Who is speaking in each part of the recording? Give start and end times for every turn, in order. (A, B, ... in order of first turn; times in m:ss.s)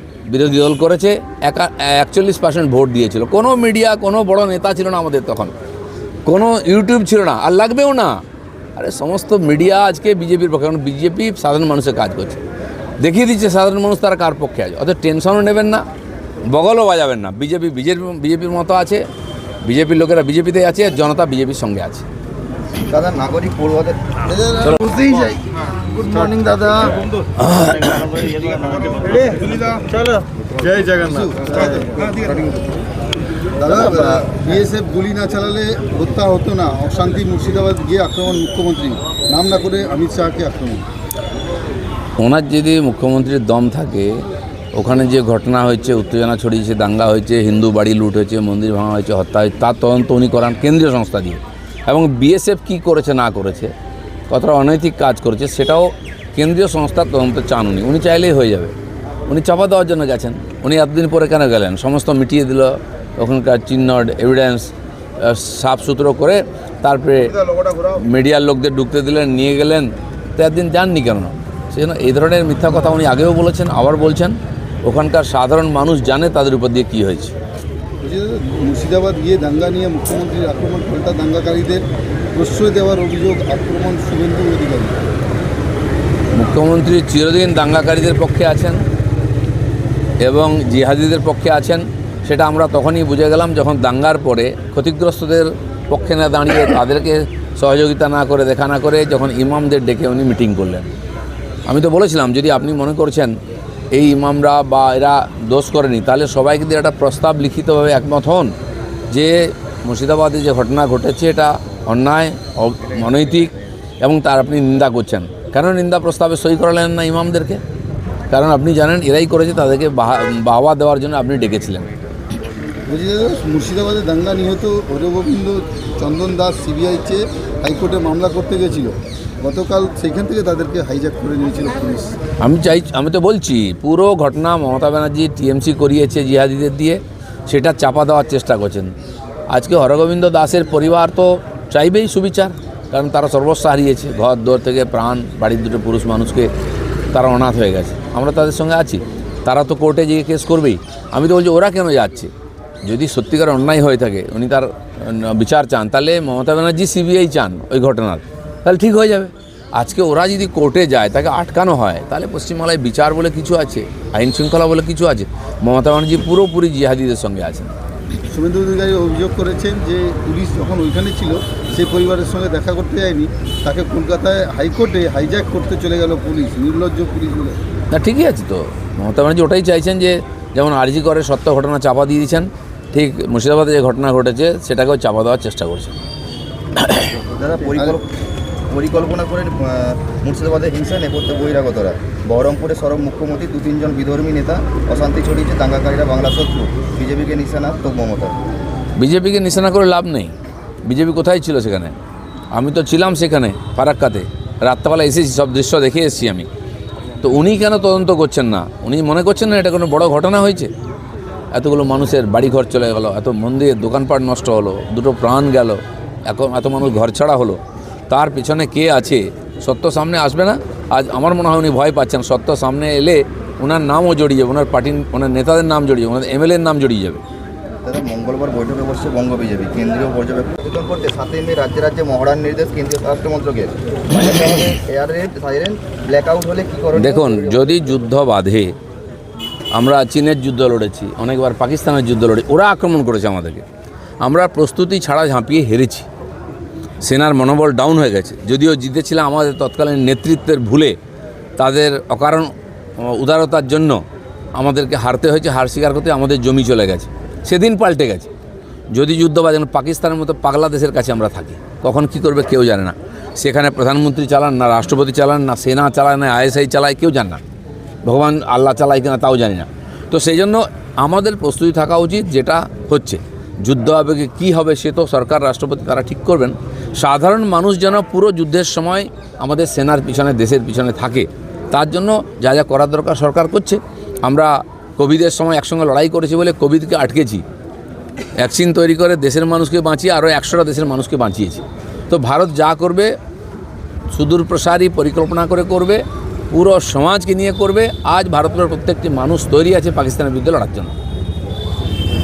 0:00.3-0:05.5 A
0:06.2-0:08.2 A
0:08.8-0:12.4 A
0:13.0-0:15.8 A
0:16.5-0:19.0 A
0:19.6-0:22.1 A
0:22.8-0:27.0 B
0:27.4-0:28.1 A
0:27.8-0:29.6 B
0:29.3-0:29.9 C
0:30.6-0:32.1 C
0:32.1-0:32.4 B
0:33.6-0:40.8 C
0:42.2-0:44.2 A
0:44.7-0:53.7 A
0:54.3-0:58.7 A
0:59.3-1:07.3 A
1:07.4-1:07.9 B
1:08.0-1:17.4 A
1:18.0-1:21.8 C
1:22.3-1:25.0 C
1:26.3-1:28.8 A
1:30.2-1:40.9 A
1:41.7-1:43.4 A
1:43.9-1:48.6 A
1:49.1-1:57.6 A
1:58.3-2:01.9 A
2:02.9-2:12.2 C
2:12.4-2:18.9 A
2:19.5-2:26.5 A
2:27.1-2:32.3 A
2:32.8-2:47.8 A
2:48.3-2:57.6 C
2:57.9-3:05.9 A
3:06.8-3:07.2 A
3:07.2-3:08.0 C
3:07.4-3:08.1 B
3:08.7-3:18.4 B
3:19.0-3:22.0 A
3:22.5-3:26.5 A
3:27.2-3:30.7 A
3:31.5-3:47.2 A
3:47.8-3:57.6 B
3:56.9-3:58.8 A
3:59.7-4:03.6 A
4:04.2-4:06.1 A
4:07.0-4:11.0 A
4:11.6-4:14.0 A
4:14.6-4:18.3 A
4:18.9-4:27.4 A
4:28.0-4:47.4 A
4:48.4-4:53.1 A
4:54.1-5:01.0 A